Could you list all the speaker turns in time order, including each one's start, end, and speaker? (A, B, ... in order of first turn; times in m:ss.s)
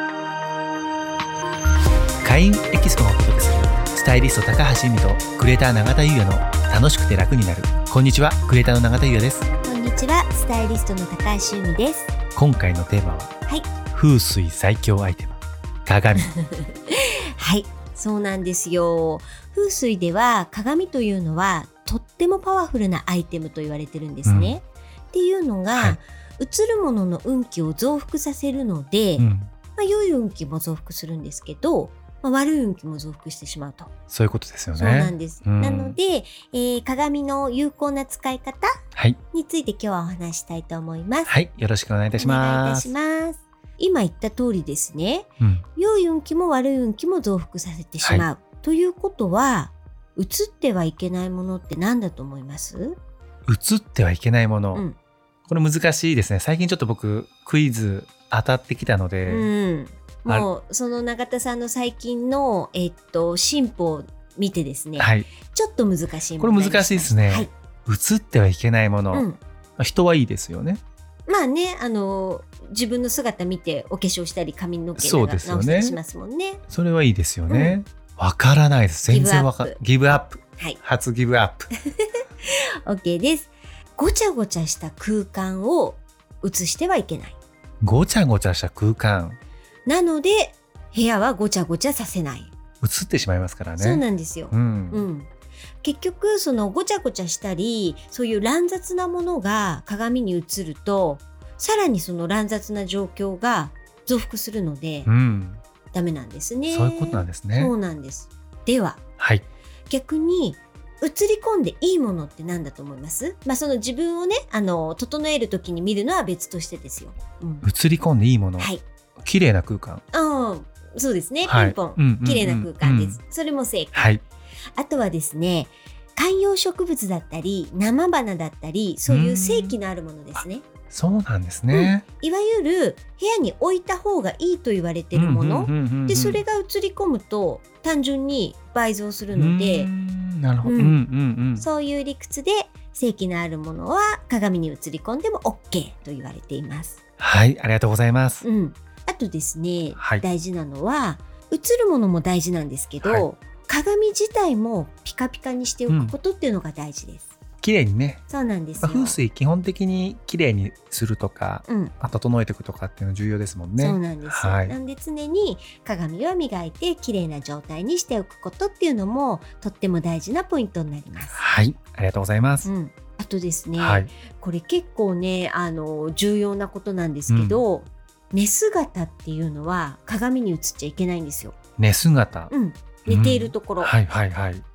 0:02.2-0:09.5 A
0:09.6-0:12.1 B
0:12.4-0:13.3 A
0:13.9-0:16.3 A
0:16.2-0:33.9 B
0:24.3-0:24.5 A
0:29.2-0:29.5 A
0:34.1-0:36.0 A
0:34.8-0:38.7 B
0:39.3-0:41.3 B
0:41.3-0:42.9 A
0:42.2-0:53.0 B
0:53.5-0:54.9 A
0:55.5-0:59.5 A
0:59.2-1:07.5 B
1:05.0-1:05.3 A
1:06.4-1:09.3 A
1:09.1-1:09.4 B
1:09.8-1:10.8 A
1:11.3-1:16.6 B
1:15.0-1:16.0 A
1:16.7-1:21.7 A
1:17.5-1:17.8 B
1:19.1-1:19.8 B
1:22.0-1:27.4 B
1:27.8-1:29.4 A
1:29.9-1:32.5 B
1:32.8-1:35.1 A
1:33.8-1:35.3 B
1:35.8-1:45.1 B
1:45.1-1:45.6 A
1:45.9-1:49.0 B
1:46.7-1:47.7 A
1:49.2-1:49.4 A
1:49.9-1:57.7 B
1:57.6-2:00.0 A
1:58.6-1:58.8 B
2:00.1-2:04.2 B
2:01.5-2:03.2 A
2:04.0-2:04.2 A
2:04.8-2:10.6 B
2:09.1-2:09.8 A
2:10.9-2:12.0 A
2:11.7-2:19.9 B
2:15.1-2:16.4 A
2:19.3-2:21.6 A
2:20.6-2:21.0 B
2:21.6-2:27.0 B
2:27.2-2:28.4 A
2:28.4-2:37.3 B
2:30.0-2:30.2 A
2:35.9-2:36.2 A
2:37.6-2:38.2 A
2:38.3-2:39.2 B
2:38.8-2:44.8 A
2:41.7-2:41.9 B
2:43.8-2:51.4 B
2:51.4-2:52.7 A
2:52.6-3:01.6 B
2:53.8-2:54.1 A
2:57.3-2:57.6 A
3:01.8-3:02.5 A
3:02.5-3:04.0 B
3:03.1-3:04.6 A